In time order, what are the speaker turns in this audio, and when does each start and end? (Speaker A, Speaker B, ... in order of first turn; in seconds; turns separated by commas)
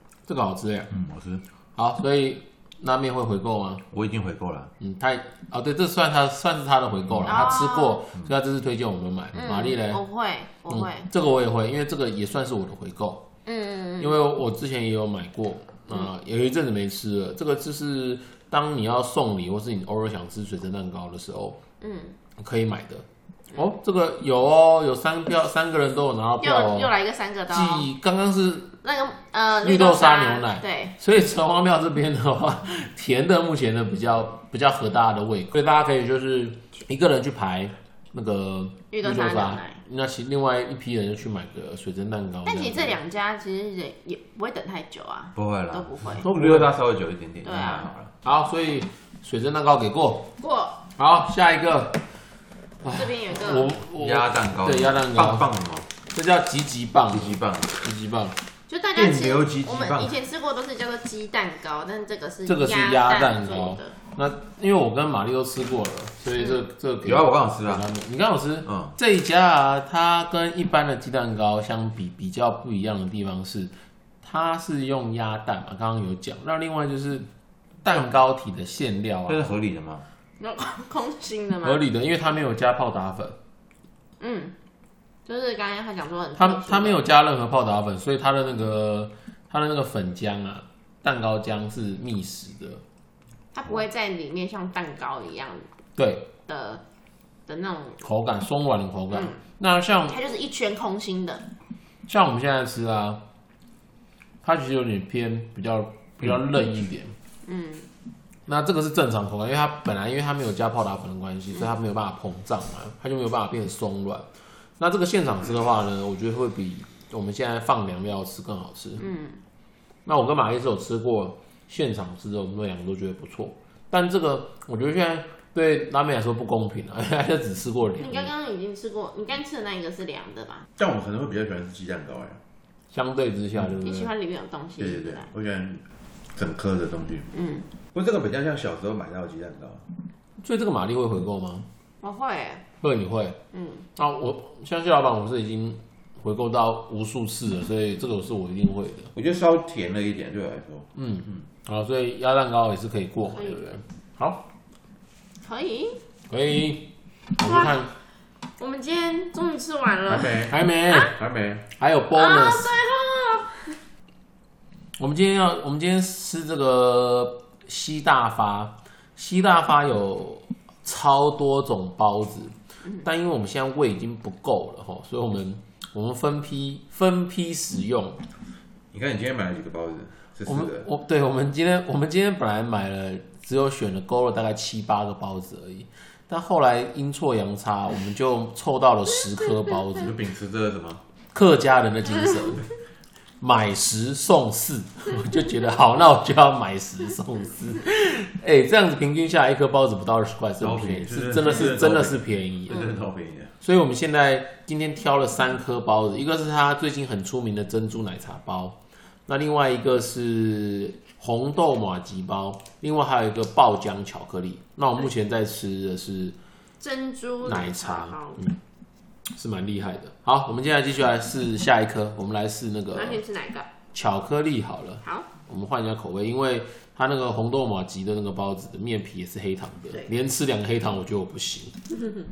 Speaker A: 0.3-0.9, Speaker B: 0.9-1.4, Speaker A: 1.8-3.9, Speaker B: 3.9-4.7, Speaker A: 4.8-10.0, Speaker B: 7.1-7.4, Speaker C: 7.2-8.0, Speaker C: 9.4-11.1, Speaker A: 10.7-13.3, Speaker C: 13.5-14.2, Speaker A: 14.0-21.6, Speaker C: 21.8-22.2, Speaker A: 22.4-26.9, Speaker C: 26.4-27.9, Speaker A: 27.5-28.8, Speaker C: 28.8-31.0, Speaker A: 29.6-43.0, Speaker C: 38.9-39.8, Speaker C: 42.4-46.3, Speaker B: 45.4-48.1, Speaker A: 46.2-46.7, Speaker C: 47.4-47.9, Speaker A: 48.2-50.3, Speaker C: 50.4-50.8, Speaker A: 51.0-52.0, Speaker A: 52.8-55.5, Speaker C: 52.9-53.8, Speaker B: 53.9-55.9, Speaker A: 56.1-58.4, Speaker B: 57.1-57.8, Speaker C: 58.7-64.0, Speaker B: 59.0-60.2, Speaker A: 62.5-77.3, Speaker B: 67.0-67.9, Speaker B: 68.7-68.9, Speaker A: 77.8-79.5, Speaker B: 79.3-80.1, Speaker C: 80.4-81.8, Speaker A: 81.6-83.4, Speaker C: 84.2-84.5, Speaker C: 85.2-87.0, Speaker A: 86.4-92.8, Speaker C: 93.5-95.7, Speaker A: 96.0-96.3, Speaker C: 96.5-96.8, Speaker C: 97.5-98.0, Speaker A: 98.0-100.2, Speaker C: 99.1-99.4, Speaker C: 100.1-101.5, Speaker A: 102.1-103.2, Speaker A: 104.4-107.2, Speaker C: 107.5-107.9, Speaker A: 108.5-119.0, Speaker C: 119.0-119.4, Speaker A: 120.1-128.3, Speaker C: 128.0-130.7, Speaker B: 130.8-132.4, Speaker A: 132.9-134.1, Speaker C: 133.8-135.3, Speaker B: 134.8-137.3, Speaker C: 137.3-137.7, Speaker B: 137.9-139.8, Speaker A: 140.4-141.7, Speaker C: 142.0-142.6, Speaker A: 142.8-143.4, Speaker C: 143.5-143.8, Speaker A: 144.0-149.1, Speaker B: 149.2-151.4, Speaker A: 150.9-154.5, Speaker C: 153.3-153.6, Speaker C: 155.4-156.0, Speaker A: 156.3-157.9, Speaker C: 157.4-157.9, Speaker C: 158.6-161.1, Speaker B: 160.1-161.7, Speaker A: 160.4-161.2, Speaker A: 161.7-162.7, Speaker C: 162.2-163.8, Speaker A: 165.0-178.2, Speaker B: 178.9-180.8, Speaker A: 180.5-190.1, Speaker B: 189.9-191.0, Speaker A: 191.3-192.7, Speaker A: 193.4-203.0, Speaker B: 200.6-203.5, Speaker A: 203.6-216.4, Speaker C: 216.8-218.4, Speaker A: 217.4-218.6, Speaker A: 219.3-223.2, Speaker C: 222.9-223.7, Speaker A: 223.9-231.8